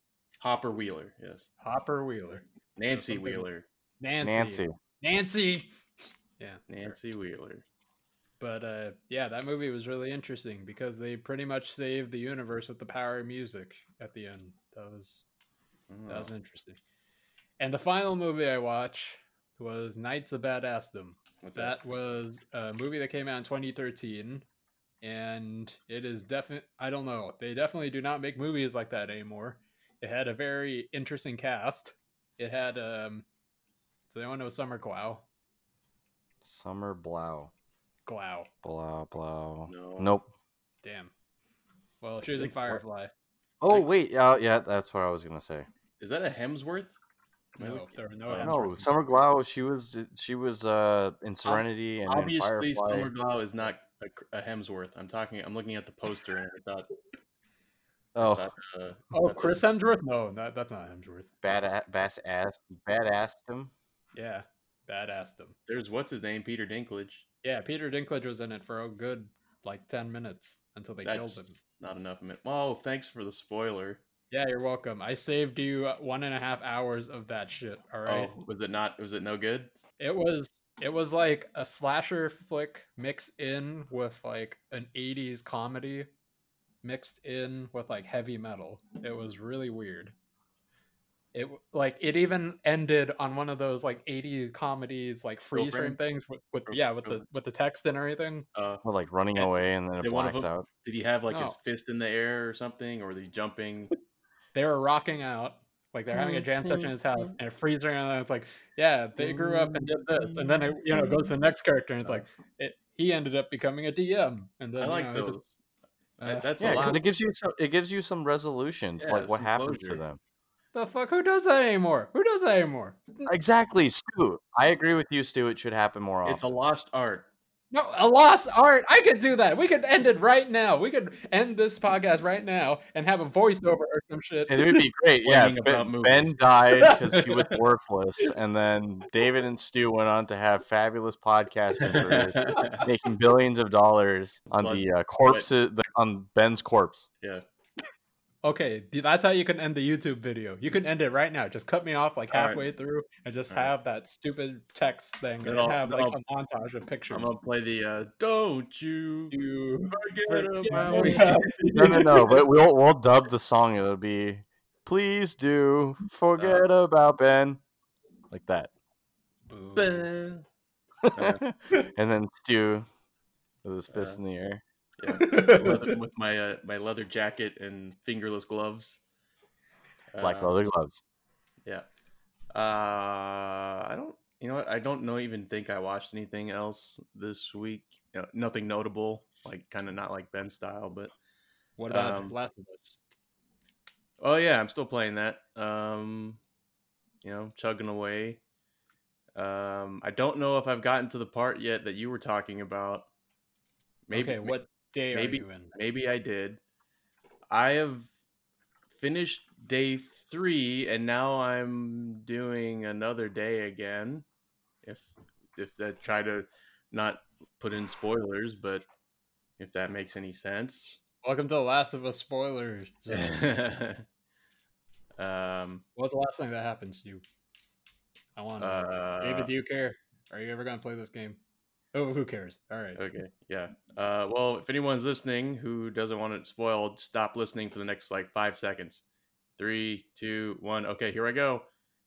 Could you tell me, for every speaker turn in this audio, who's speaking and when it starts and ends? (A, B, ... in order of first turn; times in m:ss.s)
0:00.4-0:01.4 A
0:01.6-0:03.5 B
0:02.8-0:03.6 A
0:04.0-0:05.7 B
0:04.2-0:04.7 C
0:06.7-0:07.6 A
0:08.4-0:15.2 B
0:15.9-0:16.3 A
0:16.1-0:16.8 B
0:17.6-0:24.4 B
0:21.4-0:21.8 A
0:25.0-0:33.2 B
0:34.1-0:35.2 B
0:36.4-0:37.5 C
0:38.0-0:38.5 B
0:38.6-0:40.3 C
0:39.7-0:40.2 A
0:40.8-0:41.1 B
0:42.0-0:43.1 B
0:42.4-0:42.8 A
0:43.6-0:45.7 C
0:46.0-0:47.0 A
0:47.6-0:47.9 A
0:47.6-0:48.9 B
0:48.3-0:53.1 C
0:51.4-0:56.9 A
0:58.1-0:58.5 C
0:58.2-0:59.6 A
0:59.1-1:01.3 B
1:01.4-1:03.7 C
1:04.1-1:05.6 B
1:05.7-1:07.2 A
1:07.4-1:11.6 B
1:11.0-1:14.0 A
1:14.3-1:18.3 B
1:18.0-1:19.7 A
1:20.0-1:26.1 B
1:26.8-1:30.1 B
1:31.3-1:38.4 B
1:35.5-1:36.0 A
1:36.7-1:37.2 A
1:38.5-1:38.8 A
1:38.8-1:40.6 C
1:39.4-1:43.9 A
1:41.3-1:41.6 B
1:44.5-1:55.4 B
1:46.2-1:46.8 C
1:49.2-1:51.2 A
1:54.8-1:55.5 A
1:56.2-1:57.0 A
1:56.2-1:57.0 B
1:56.6-2:00.2 C
1:59.0-2:00.0 A
2:00.7-2:03.3 B
2:03.2-2:06.4 C
2:06.2-2:07.3 A
2:07.7-2:14.7 B
2:14.5-2:27.1 C
2:15.2-2:17.6 A
2:21.8-2:22.9 A
2:24.6-2:25.5 A
2:28.4-2:37.3 B
2:32.3-2:32.6 A
2:35.4-2:36.2 A
2:37.1-2:39.4 A
2:39.3-2:42.4 B
2:39.9-2:42.3 A
2:40.8-2:47.6 C
2:46.4-2:46.6 A
2:48.3-2:48.7 C
2:49.5-2:50.1 B
2:49.8-2:50.4 A
2:51.0-2:52.8 C
2:51.1-2:51.4 A
2:53.6-2:54.6 C
2:53.9-2:54.2 A
2:55.0-2:59.0 A
2:55.1-2:56.0 B
3:00.1-3:00.6 A
3:00.2-3:01.0 C
3:02.5-3:11.1 A
3:11.8-3:13.0 B
3:11.9-3:12.3 A
3:14.2-3:16.4 A
3:17.2-3:18.4 A
3:19.3-3:23.1 A
3:24.1-3:24.6 A
3:24.1-3:25.7 B
3:25.1-3:26.6 A
3:27.5-3:28.1 A
3:28.9-3:34.2 A
3:34.8-3:38.8 A
3:39.6-3:41.0 A
3:41.2-3:43.4 B
3:43.1-3:44.0 A
3:45.2-3:45.8 A
3:46.0-3:47.2 B
3:48.4-3:51.4 B
3:48.6-3:49.5 A
3:51.9-3:53.0 B
3:53.0-3:59.0 A
3:59.6-4:01.7 A